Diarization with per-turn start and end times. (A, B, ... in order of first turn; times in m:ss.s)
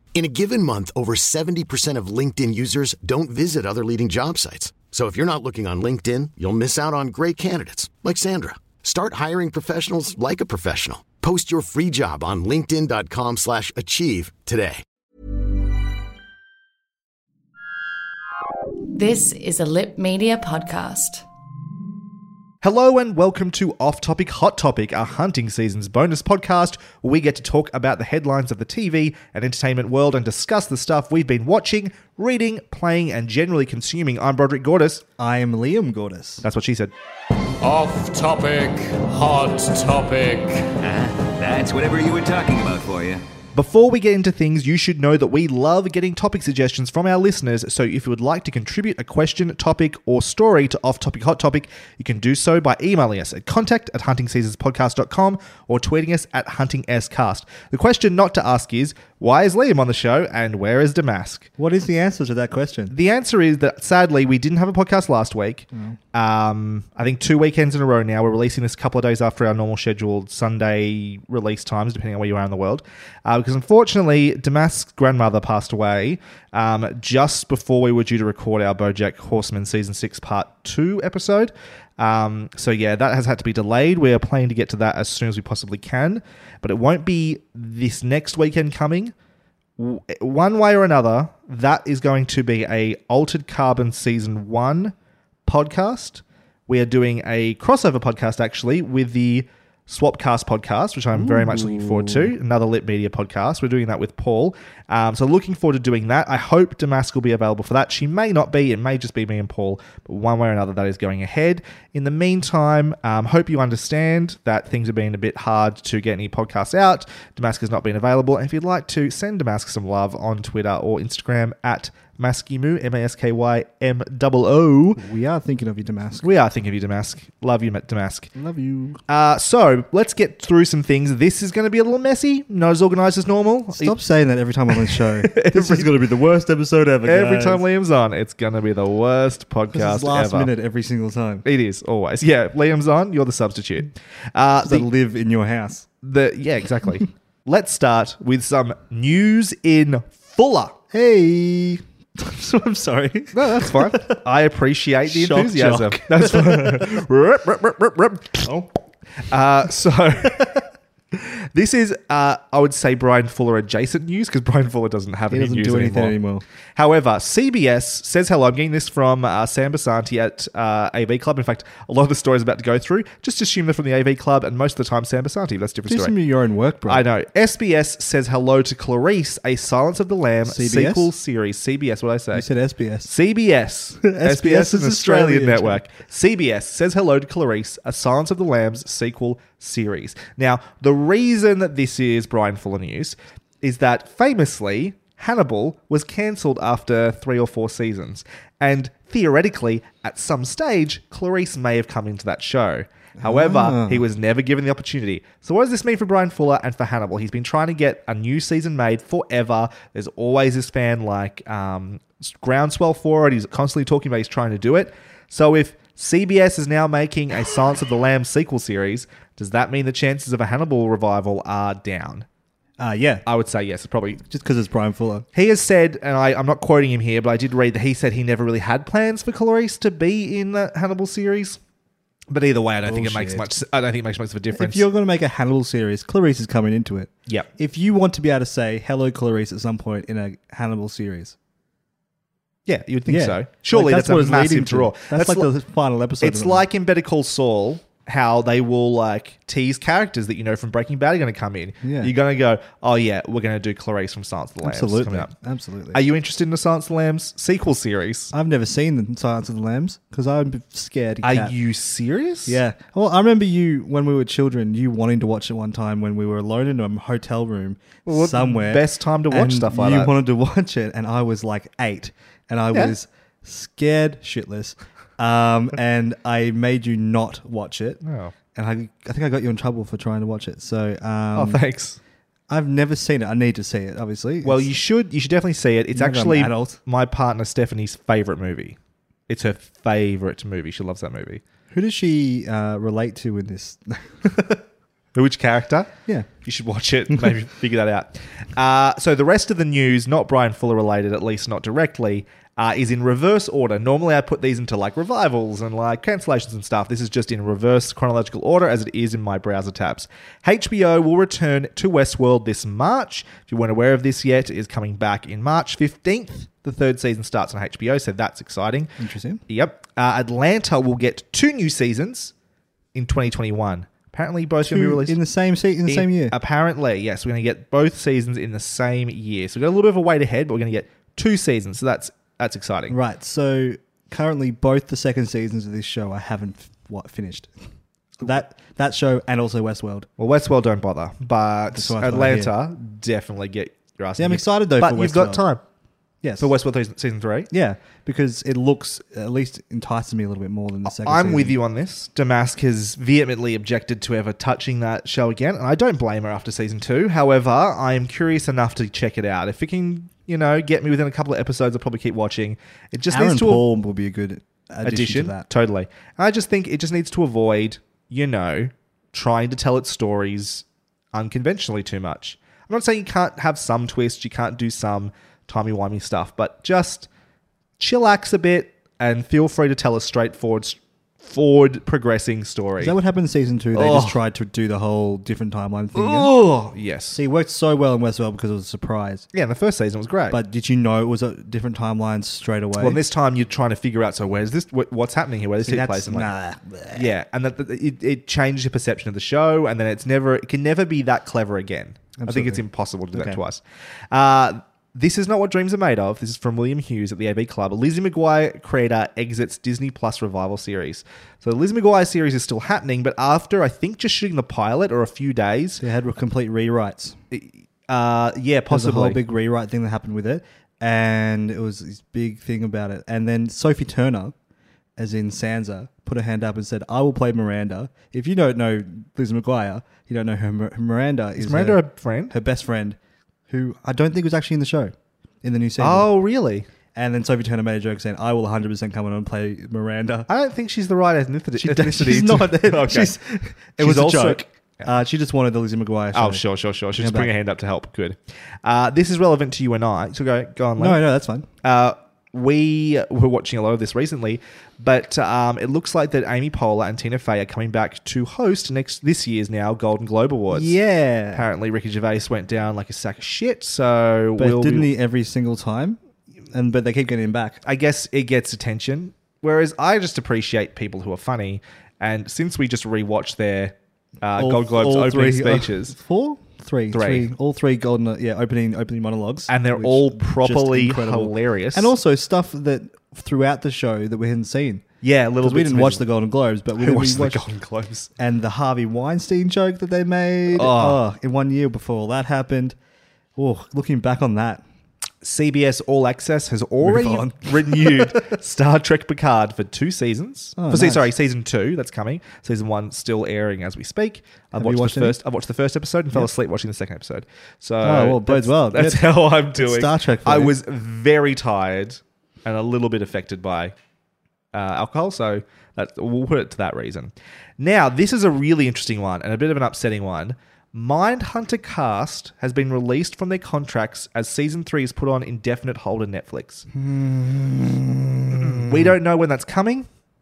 0:00.1-0:14.8 A
0:18.9-0:21.2 B
0:22.6-0:35.0 C
0:35.2-0:36.4 D
0:36.4-0:36.9 C
0:37.6-0:40.8 E
0:40.8-0:43.2 F
0:43.6-1:01.5 C
1:01.6-1:02.9 D
1:02.9-1:29.1 C
1:29.8-1:34.9 C
1:35.4-2:05.0 C
1:41.1-1:42.3 D
2:05.0-2:06.3 D
2:06.2-2:08.3 C
2:08.3-2:09.0 D
2:09.1-2:13.9 C
2:13.7-2:17.6 D
2:14.7-2:15.9 C
2:17.0-2:20.5 C
2:19.7-2:21.4 D
2:21.4-2:24.9 C
2:24.6-2:25.9 D
2:26.0-2:30.8 C
2:30.9-2:34.2 D
2:33.3-2:38.6 C
2:35.0-2:36.9 D
2:39.2-2:40.5 C
2:40.2-2:40.6 D
2:41.1-2:46.2 C
2:45.3-2:46.4 D
2:46.8-2:56.1 C
2:55.8-2:57.0 D
2:56.9-3:02.4 C
3:00.4-3:01.1 D
3:02.3-3:03.1 D
3:03.0-3:42.2 C
3:04.0-3:05.8 D
3:23.2-3:24.0 D
3:42.8-3:43.2 D
3:43.2-3:44.2 C
3:44.3-3:45.3 D
3:45.3-3:51.6 C
3:52.3-3:54.8 C
3:52.8-3:53.5 D
3:54.6-4:01.4 D
4:02.6-4:05.5 C
4:03.1-4:06.6 D
4:06.2-4:15.3 C
4:11.8-4:12.1 D
4:14.6-4:16.0 D
4:15.9-4:18.3 C
4:18.3-4:21.6 D
4:21.2-4:22.6 C
4:22.5-4:38.0 D
4:28.1-4:30.2 C
4:38.0-4:38.3 C
4:38.5-4:41.6 D
4:41.3-4:42.0 C
4:42.5-4:44.7 D
4:44.4-4:48.8 C
4:45.9-4:46.8 D
4:49.3-4:51.4 C
4:51.7-4:54.6 D
4:55.1-5:18.9 C
5:19.0-5:19.4 D
5:19.5-5:22.3 C
5:22.9-5:25.2 C
5:24.6-5:26.4 D
5:25.9-5:33.0 C
5:32.9-5:37.6 D
5:38.2-5:40.1 D
5:40.2-5:45.6 C
5:41.7-5:42.5 D
5:44.2-5:45.4 D
5:46.2-5:46.5 D
5:46.4-5:47.5 C
5:47.5-5:51.6 D
5:50.8-6:03.6 C
6:03.1-6:05.4 D
6:04.8-6:17.1 C
6:17.8-6:23.0 C
6:22.8-6:29.3 D
6:23.7-6:24.2 C
6:25.9-6:27.2 C
6:29.3-6:30.4 C
6:30.3-6:33.0 D
6:32.8-6:36.3 C
6:35.6-6:37.1 D
6:36.9-6:55.8 C
6:42.2-6:43.4 D
6:55.8-6:57.2 D
6:57.3-6:59.2 C
6:58.7-7:04.3 D
7:05.0-7:13.0 D
7:11.4-7:12.3 C
7:13.5-7:16.1 D
7:15.8-7:16.7 C
7:16.9-7:20.3 D
7:20.3-7:23.2 C
7:21.6-7:26.4 D
7:23.8-7:24.8 C
7:26.1-7:31.0 C
7:27.0-7:27.3 D
7:30.8-7:31.5 D
7:31.6-7:40.8 C
7:40.5-7:41.5 D
7:41.3-7:44.9 C
7:44.4-7:47.6 D
7:47.6-7:56.0 C
7:54.4-8:04.8 D
7:56.9-7:57.3 C
7:59.5-8:01.9 C
8:05.0-8:06.0 C
8:05.4-8:07.4 D
8:06.8-8:08.1 C
8:08.2-8:12.8 D
8:10.5-8:11.0 C
8:13.4-8:14.6 D
8:15.2-8:33.7 C
8:16.8-8:18.3 D
8:20.6-8:21.1 D
8:24.5-8:25.2 D
8:27.8-8:30.6 D
8:34.5-8:46.7 C
8:46.7-8:49.0 D
8:48.3-8:49.9 C